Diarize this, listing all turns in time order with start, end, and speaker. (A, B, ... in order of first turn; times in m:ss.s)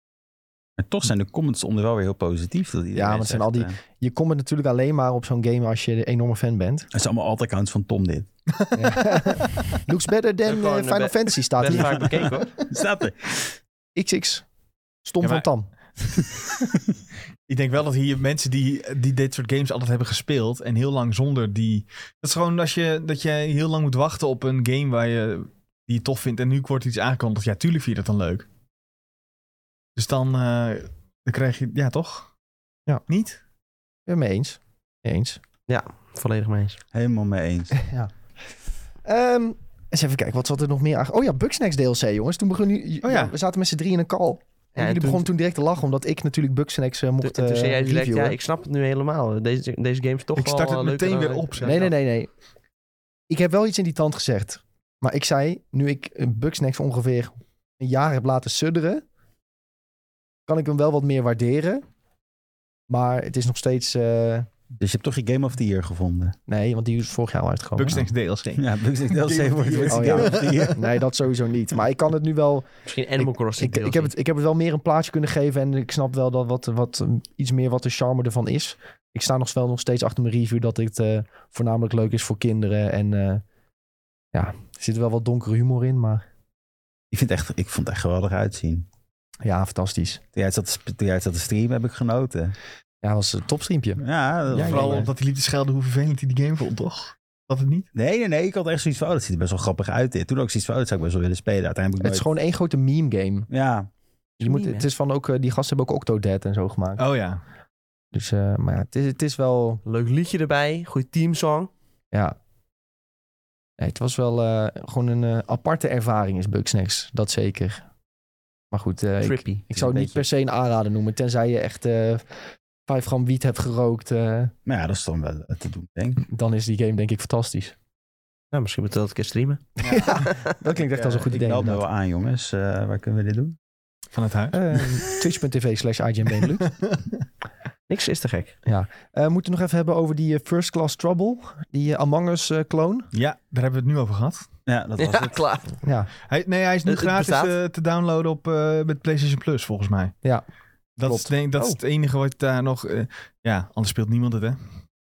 0:00.8-0:03.8 A
0:03.0-0:06.9 B
0:06.9-0:08.3 A
0:08.7-0:09.6 C
0:08.7-0:12.3 B
0:10.5-0:12.5 D
0:11.7-0:13.6 A
0:14.0-0:14.4 B
0:15.0-0:15.7 B
0:15.2-0:15.5 C
0:17.5-0:28.5 C
0:30.0-0:32.3 C
0:33.1-0:33.4 C
0:34.1-0:35.4 B
0:35.7-0:36.8 D
0:36.9-0:37.8 A
0:37.7-0:38.1 B
0:39.0-0:48.4 B
0:43.0-0:43.3 C
0:44.8-0:45.3 D
0:47.2-0:51.8 D
0:50.4-0:51.9 C
0:51.6-0:52.3 B
0:53.3-0:59.0 B
1:00.5-1:01.8 B
1:02.9-1:04.5 B
1:04.8-1:06.4 A
1:06.5-1:08.0 B
1:07.8-1:10.8 C
1:07.9-1:10.9 A
1:09.9-1:23.4 B
1:12.9-1:14.1 D
1:24.3-1:26.2 B
1:27.1-1:28.9 A
1:29.4-1:30.2 B
1:30.4-1:32.6 A
1:33.0-1:35.1 B
1:34.0-1:35.1 A
1:34.6-1:37.9 C
1:37.9-1:42.3 A
1:42.0-1:43.5 B
1:43.5-1:43.9 A
1:44.4-1:44.9 D
1:44.4-1:47.0 B
1:47.0-1:47.4 C
1:48.1-1:49.8 B
1:49.9-1:51.7 D
1:53.8-1:57.8 B
1:58.7-2:02.2 B
1:59.2-1:59.6 D
1:59.7-2:00.3 A
2:02.9-2:04.5 B
2:04.7-2:06.2 A
2:06.3-2:07.8 B
2:08.5-2:10.5 D
2:09.8-2:11.8 B
2:09.8-2:10.1 C
2:11.0-2:13.6 A
2:14.1-2:14.8 C
2:14.5-2:16.7 B
2:16.6-2:17.2 C
2:17.9-2:18.6 D
2:18.7-2:23.1 B
2:23.1-2:24.5 C
2:24.7-2:25.4 A
2:25.0-2:25.7 D
2:25.8-2:26.1 B
2:26.3-2:30.2 C
2:26.9-2:27.5 D
2:31.0-2:34.6 C
2:31.0-2:31.3 B